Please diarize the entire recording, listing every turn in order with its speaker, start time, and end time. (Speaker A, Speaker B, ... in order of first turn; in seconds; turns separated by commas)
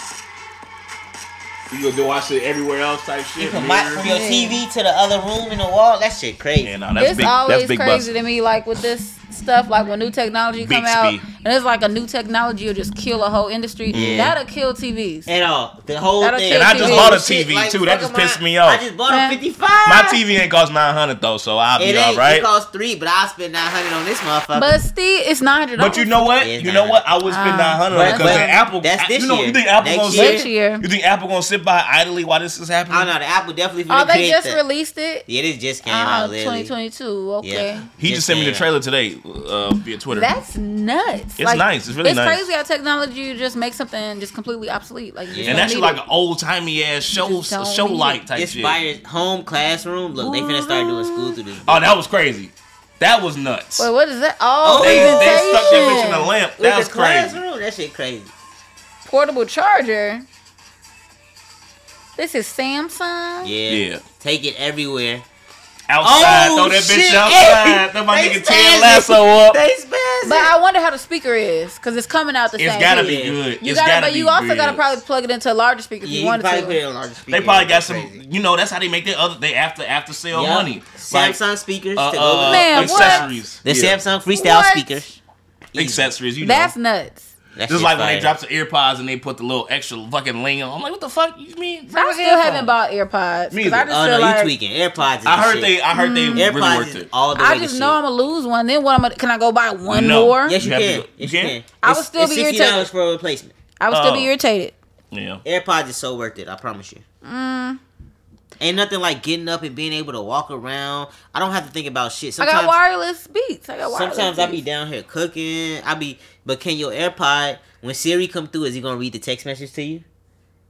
Speaker A: 1.7-4.1, Speaker B: 3.4-6.7, Speaker C: 4.0-4.6, Speaker A: 6.6-8.1, Speaker C: 7.0-15.3, Speaker A: 10.6-11.2, Speaker B: 13.9-14.3, Speaker A: 13.9-14.3, Speaker B: 15.2-20.2, Speaker C: 16.2-17.1, Speaker A: 16.5-18.8, Speaker C: 19.1-19.4, Speaker A: 19.8-22.5, Speaker B: 21.8-24.7, Speaker C: 24.5-26.1, Speaker A: 25.8-33.1, Speaker B: 26.4-27.0, Speaker C: 27.2-28.6, Speaker B: 27.9-30.5, Speaker C: 30.1-30.8, Speaker B: 32.9-34.6, Speaker C: 33.9-35.2, Speaker B: 35.3-36.7, Speaker C: 35.8-37.9, Speaker B: 37.4-38.7, Speaker A: 38.0-40.3, Speaker C: 40.1-46.0, Speaker A: 41.4-42.5, Speaker B: 45.3-45.7, Speaker A: 45.4-48.8, Speaker C: 47.2-48.2, Speaker B: 48.3-51.9, Speaker C: 50.2-51.4, Speaker A: 51.6-53.9, Speaker C: 53.8-56.3, Speaker B: 54.6-58.3, Speaker A: 54.8-57.4, Speaker C: 59.0-60.2, Speaker C: 62.2-63.5, Speaker B: 63.4-65.2, Speaker A: 63.7-64.0, Speaker A: 65.9-69.6, Speaker B: 66.0-70.5, Speaker C: 70.2-76.8, Speaker A: 72.6-75.0, Speaker B: 73.0-73.4, Speaker B: 76.0-78.2, Speaker A: 77.3-81.4, Speaker B: 80.3-85.1, Speaker A: 81.9-84.0, Speaker C: 82.5-83.3, Speaker C: 84.3-85.2, Speaker B: 85.7-86.1, Speaker A: 85.7-86.7, Speaker C: 86.4-87.3, Speaker B: 87.5-88.3, Speaker A: 87.7-92.7, Speaker C: 91.9-94.5, Speaker A: 93.5-93.9, Speaker B: 93.9-95.7, Speaker A: 95.2-97.1, Speaker C: 95.9-96.5, Speaker B: 96.3-98.0, Speaker C: 97.3-100.6, Speaker A: 99.9-101.6, Speaker B: 100.5-103.5, Speaker C: 101.8-102.9, Speaker C: 103.8-104.7, Speaker A: 103.9-104.3, Speaker A: 105.1-105.4, Speaker B: 105.4-107.0, Speaker C: 107.2-107.8, Speaker B: 108.6-112.8, Speaker C: 112.4-114.6, Speaker B: 113.8-120.0